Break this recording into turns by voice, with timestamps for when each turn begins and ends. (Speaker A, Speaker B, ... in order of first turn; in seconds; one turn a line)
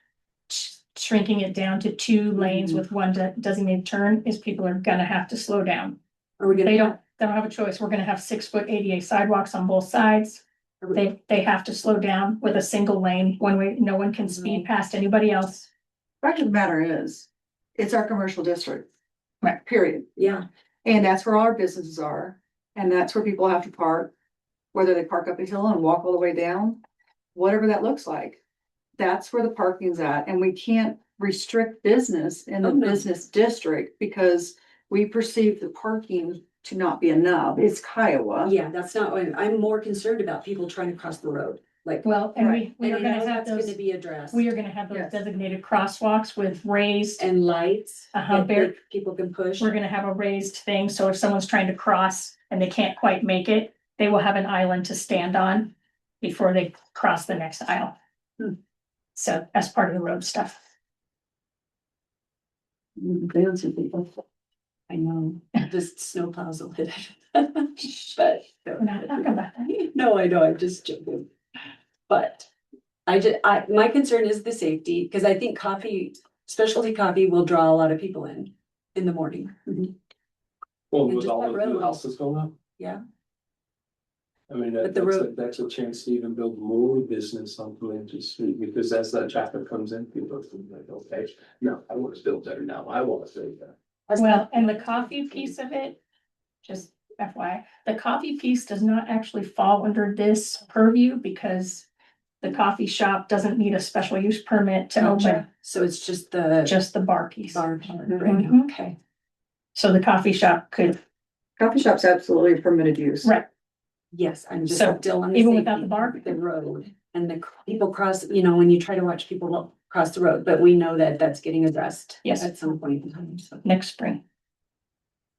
Speaker A: 0.5-6.0
Speaker B: 2.4-2.8
Speaker B: 6.4-7.0
Speaker A: 6.6-10.4
Speaker A: 10.9-15.7
Speaker B: 14.3-14.7
Speaker C: 16.2-18.9
Speaker C: 19.6-20.1
Speaker B: 20.2-20.4
Speaker C: 20.8-24.1
Speaker C: 24.7-26.8
Speaker C: 27.3-28.4
Speaker C: 29.0-38.5
Speaker B: 32.6-33.1
Speaker B: 38.4-42.2
Speaker A: 42.0-47.2
Speaker C: 42.4-43.3
Speaker B: 42.8-44.5
Speaker C: 44.9-45.2
Speaker B: 47.2-49.8
Speaker A: 48.1-48.7
Speaker A: 49.6-58.0
Speaker A: 59.1-60.6
Speaker C: 63.0-64.2
Speaker B: 64.9-71.3
Speaker A: 68.8-69.7
Speaker B: 72.1-72.5
Speaker B: 73.1-79.9
Speaker D: 80.9-82.5
Speaker B: 81.1-82.0
Speaker D: 84.5-93.7
Speaker B: 84.8-85.3
Speaker B: 94.1-95.5
Speaker A: 94.2-96.0
Speaker A: 96.6-101.9
Speaker A: 102.4-105.4
Speaker B: 105.0-106.8
Speaker A: 106.7-108.7
Speaker B: 107.5-109.0
Speaker A: 109.8-111.0
Speaker C: 111.6-113.3
Speaker B: 114.1-123.6
Speaker A: 114.7-116.4
Speaker A: 122.2-122.5
Speaker A: 123.6-124.2